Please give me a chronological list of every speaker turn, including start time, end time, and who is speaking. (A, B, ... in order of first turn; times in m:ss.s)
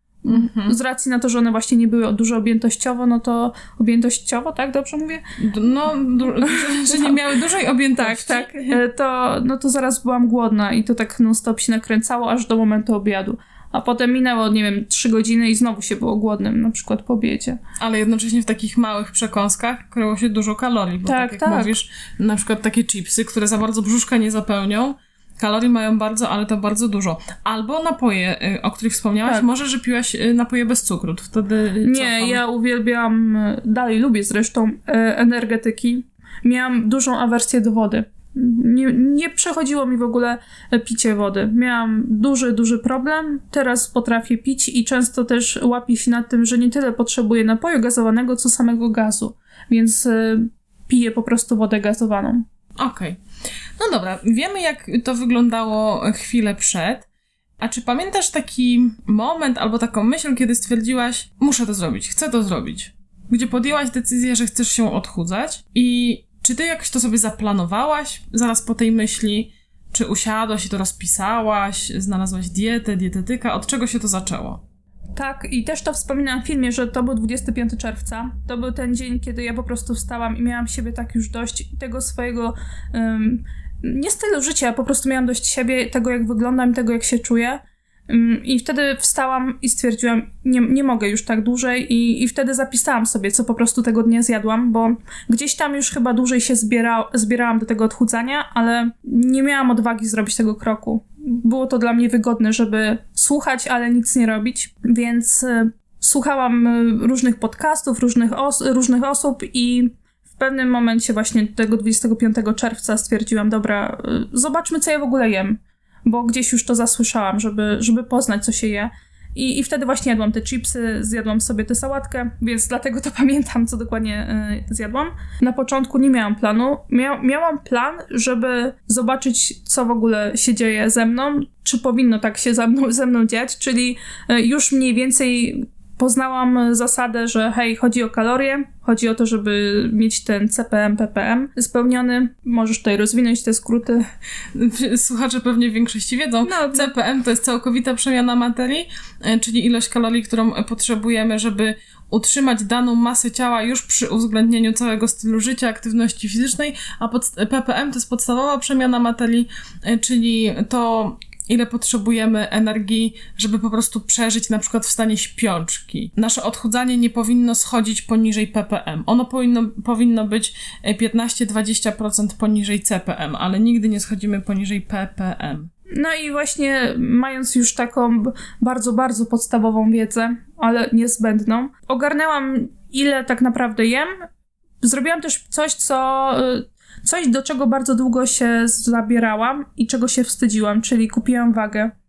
0:00.2-0:05.2 A
0:00.3-0:00.8 B
0:05.4-0:08.8 B
0:06.4-0:07.2 A
0:08.0-0:17.6 A
0:17.8-0:32.4 B
0:21.0-0:21.7 A
0:31.8-0:52.4 A
0:52.8-0:53.2 B
0:53.8-0:57.1 B
0:57.6-1:14.6 B
1:15.2-2:24.1 A
2:24.5-2:55.7 B
2:26.4-2:26.9 A
2:55.9-3:04.1 A
3:04.8-3:11.9 A